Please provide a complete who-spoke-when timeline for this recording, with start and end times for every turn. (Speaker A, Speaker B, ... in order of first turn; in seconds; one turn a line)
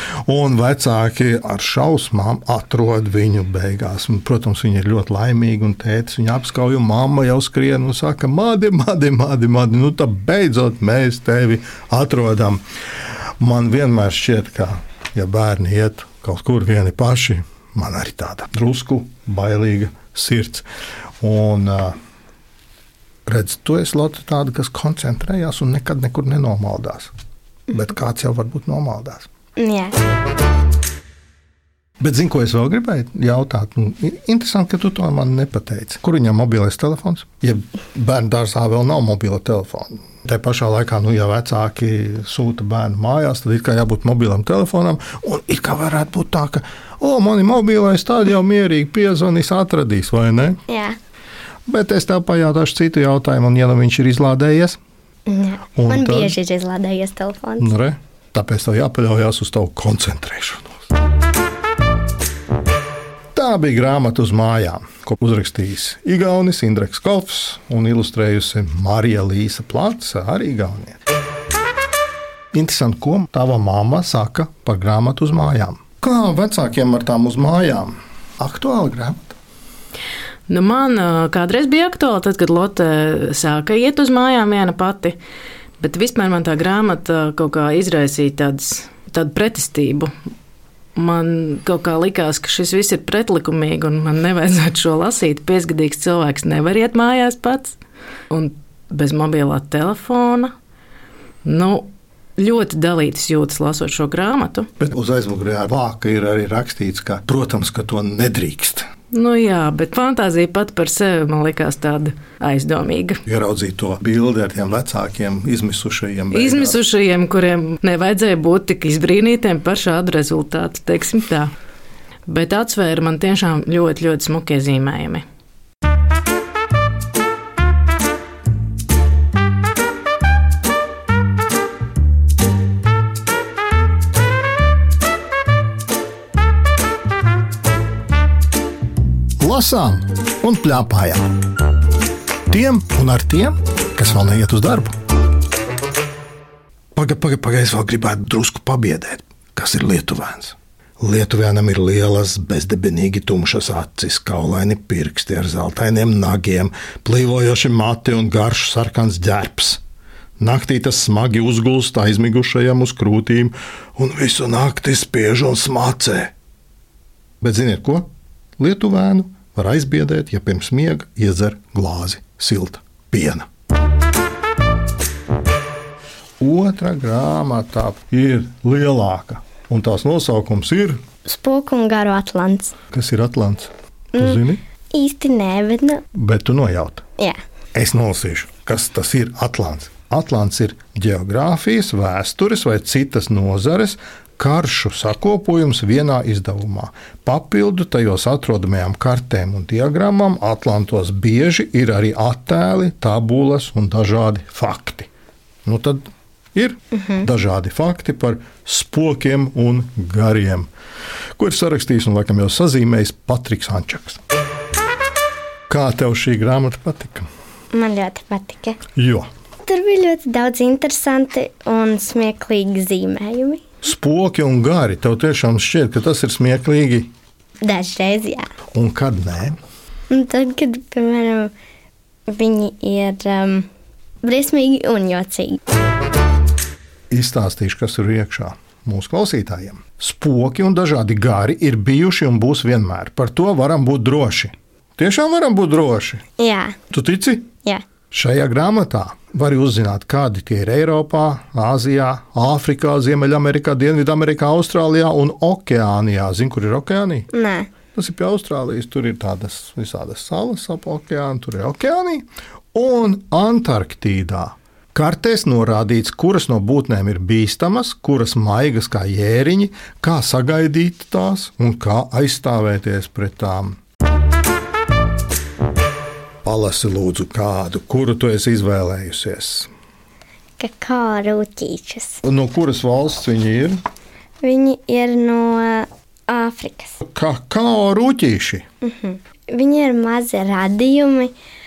Speaker A: 0.2-12.6
Speaker A: 13.4-20.6
Speaker A: 21.2-21.9
Speaker A: 23.2-27.1
Speaker A: 27.7-29.3
Speaker B: 29.6-29.9
Speaker A: 32.0-50.6
Speaker B: 50.7-51.0
Speaker A: 51.7-54.8
Speaker B: 55.2-57.8
Speaker A: 55.8-56.3
Speaker A: 57.6-60.7
Speaker A: 63.3-71.0
Speaker A: 72.5-79.4
Speaker C: 80.5-85.2
Speaker C: 85.8-90.1
Speaker C: 91.0-97.7
Speaker C: 98.3-100.5
Speaker C: 101.4-104.7
Speaker A: 104.8-108.9
Speaker C: 109.1-113.2
Speaker A: 113.2-116.8
Speaker C: 116.3-121.5
Speaker C: 122.2-125.2
Speaker A: 139.4-141.3
Speaker A: 142.5-144.9
Speaker A: 146.9-159.8
Speaker A: 160.4-166.3
Speaker A: 167.4-168.1
Speaker A: 168.6-173.5
Speaker A: 176.4-181.0
Speaker B: 181.2-182.7
Speaker A: 182.9-184.6
Speaker B: 184.1-184.4
Speaker B: 184.9-186.0
Speaker A: 186.1-187.0
Speaker A: 187.7-205.1
Speaker A: 205.6-210.7
Speaker A: 211.4-214.2
Speaker A: 215.7-217.3
Speaker B: 217.7-218.8
Speaker A: 218.9-219.3
Speaker B: 219.6-223.6
Speaker A: 223.8-227.1
Speaker B: 227.6-228.4
Speaker A: 228.7-229.6
Speaker B: 230.1-231.5
Speaker B: 232.3-233.7
Speaker B: 234.2-235.6
Speaker A: 237.1-246.2
Speaker B: 246.4-246.8
Speaker A: 246.9-247.5
Speaker A: 248.1-257.3
Speaker B: 257.3-257.7
Speaker A: 257.9-273.8
Speaker A: 276.4-279.7
Speaker B: 280.6-282.2
Speaker A: 282.2-283.8
Speaker B: 284.4-287.0
Speaker A: 287.0-288.6
Speaker B: 288.8-291.3